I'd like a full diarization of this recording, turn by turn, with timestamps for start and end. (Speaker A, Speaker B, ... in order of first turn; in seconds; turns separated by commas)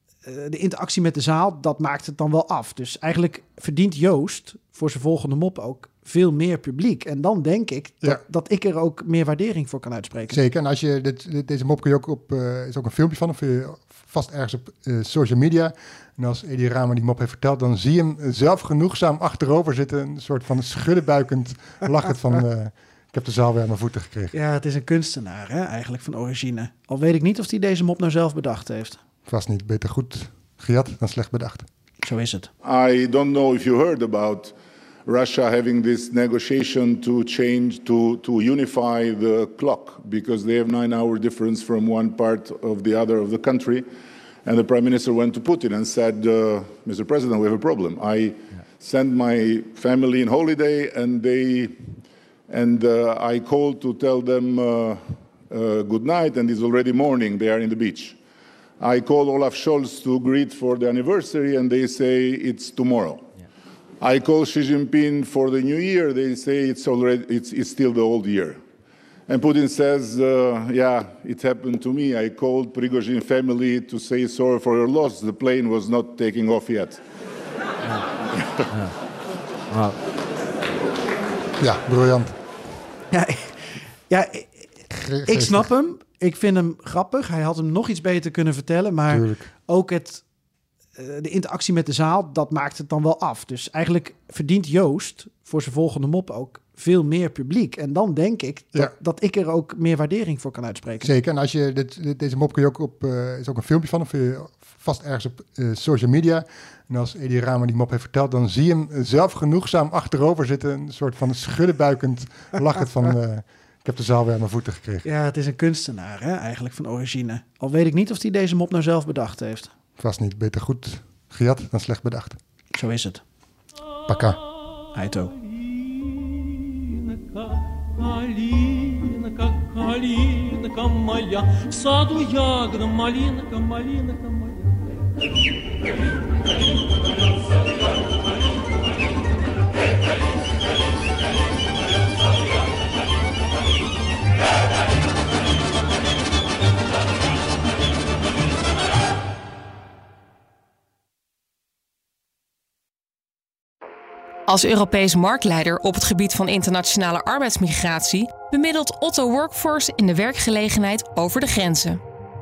Speaker A: 0.2-10.4, Speaker B: 10.3-24.4, Speaker A: 24.3-29.0, Speaker B: 29.3-31.7, Speaker A: 32.0-32.5, Speaker C: 32.6-34.5, Speaker C: 35.1-43.9, Speaker C: 44.5-51.9, Speaker C: 52.5-58.2, Speaker C: 58.8-63.3, Speaker C: 64.0-68.6, Speaker C: 69.3-77.0, Speaker C: 78.4-78.8, Speaker B: 81.6-82.3, Speaker A: 83.1-90.2, Speaker B: 84.9-85.7, Speaker B: 89.1-89.5, Speaker A: 91.0-101.1, Speaker B: 101.0-115.1, Speaker A: 115.0-119.7, Speaker B: 120.0-122.4, Speaker A: 122.7-123.2, Speaker B: 124.1-124.4, Speaker A: 124.9-125.3, Speaker D: 125.5-134.8, Speaker E: 154.5-162.0